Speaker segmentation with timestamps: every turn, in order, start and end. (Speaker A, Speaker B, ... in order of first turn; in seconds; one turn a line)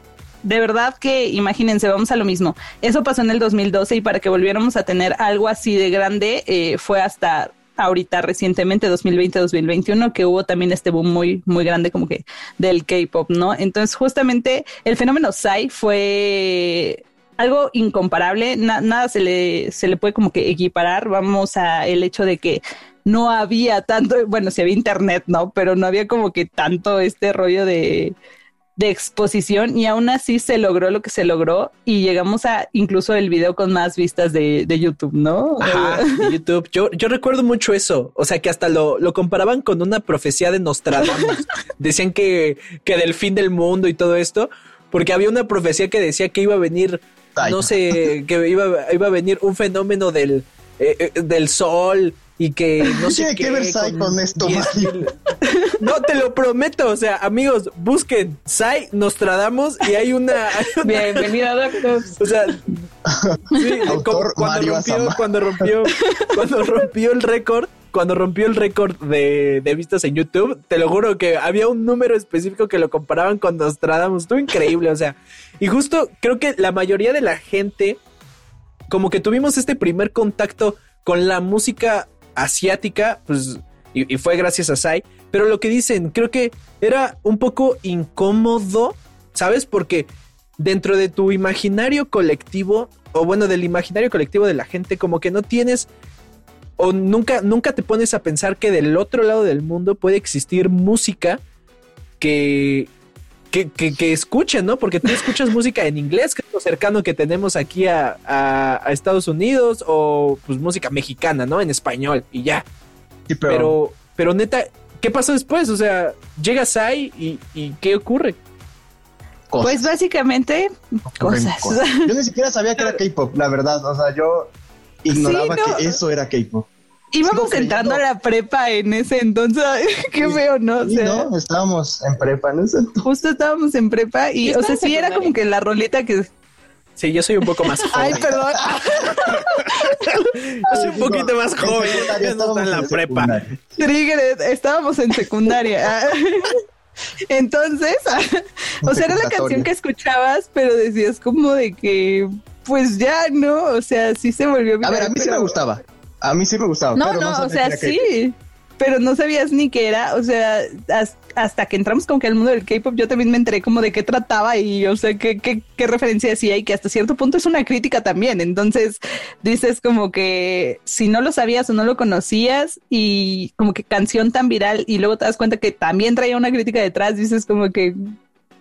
Speaker A: 0.4-28.1
Speaker A: 28.8-36.3
Speaker B: 35.6-55.1
Speaker C: 47.4-48.0
Speaker C: 53.0-55.1
Speaker A: 55.4-55.8
Speaker B: 55.8-61.3
Speaker D: 60.8-62.2
Speaker B: 62.2-62.7
Speaker C: 63.0-65.7
Speaker B: 63.5-78.0
Speaker B: 78.9-95.9
Speaker B: 96.8-101.4
Speaker B: 102.2-102.9
Speaker B: 103.5-112.6
Speaker C: 113.3-113.8
Speaker B: 113.5-118.4
Speaker C: 119.5-119.9
Speaker A: 119.6-122.1
Speaker C: 121.1-124.5
Speaker C: 125.0-126.7
Speaker A: 125.1-126.0
Speaker A: 127.1-131.3
Speaker C: 127.2-128.0
Speaker C: 130.2-133.0
Speaker A: 133.0-136.3
Speaker D: 134.4-135.3
Speaker B: 137.0-143.4
Speaker A: 137.8-140.1
Speaker C: 140.7-143.8
Speaker A: 143.8-146.6
Speaker A: 147.3-155.5
Speaker C: 148.8-149.7
Speaker C: 154.8-158.1
Speaker A: 156.9-178.0